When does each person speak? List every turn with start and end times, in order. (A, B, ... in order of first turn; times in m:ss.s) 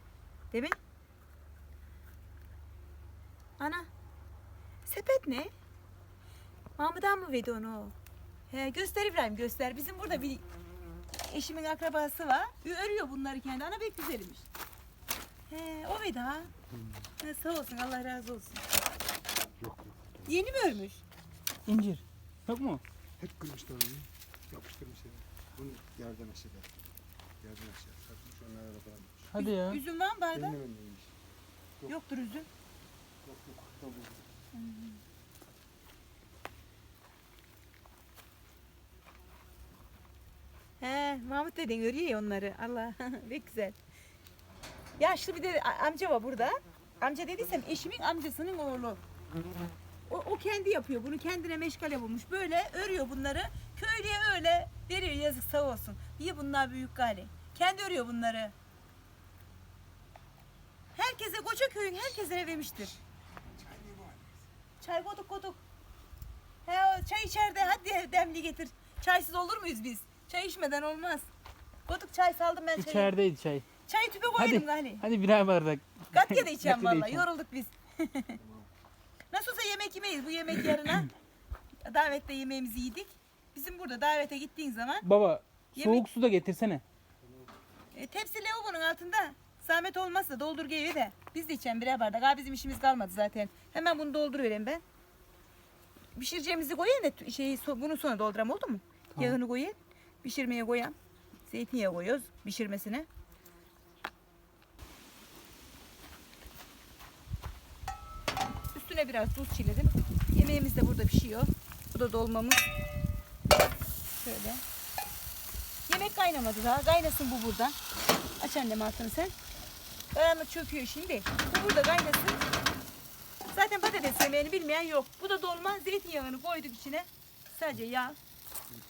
0:00.5-0:00.8 A
0:03.6-0:03.9 A
0:04.8-0:05.5 A
0:06.8-0:07.9 A
0:08.5-0:10.4 A
0:11.2-0:14.5 A
0:15.5-0:16.5 A
0:17.2-0:18.6 A
0:19.6-0:20.4 B
0:20.3-0:21.0 A
0:21.7-0:22.8 C
0:23.2-0:26.7 B
0:27.4-0:29.3 B
0:29.3-0:29.8 C
0:29.4-0:30.6 A
0:30.3-0:31.1 B
0:31.9-0:32.5 A
0:33.2-0:34.2 B
0:34.5-0:35.0 A
0:40.8-0:43.8 A
0:45.0-0:49.0 A
0:50.1-0:58.5 A
1:01.0-1:03.0 A
1:03.6-1:04.3 B
1:04.8-1:05.6 A
1:06.6-1:11.3 A
1:11.9-1:13.1 A
1:12.8-1:13.6 C
1:13.9-1:15.0 A
1:14.4-1:17.2 C
1:16.1-1:18.4 A
1:18.4-1:18.7 B
1:19.3-1:21.1 A
1:21.8-1:25.0 A
1:25.0-1:26.8 C
1:25.7-1:26.0 A
1:27.2-1:27.5 B
1:27.9-1:34.8 A
1:36.2-1:40.9 A
1:41.5-1:43.1 A
1:48.7-1:52.6 A
1:54.2-1:54.6 A
1:55.9-1:57.8 A
1:58.4-1:59.3 A
2:00.1-2:02.4 A
2:03.5-2:08.2 A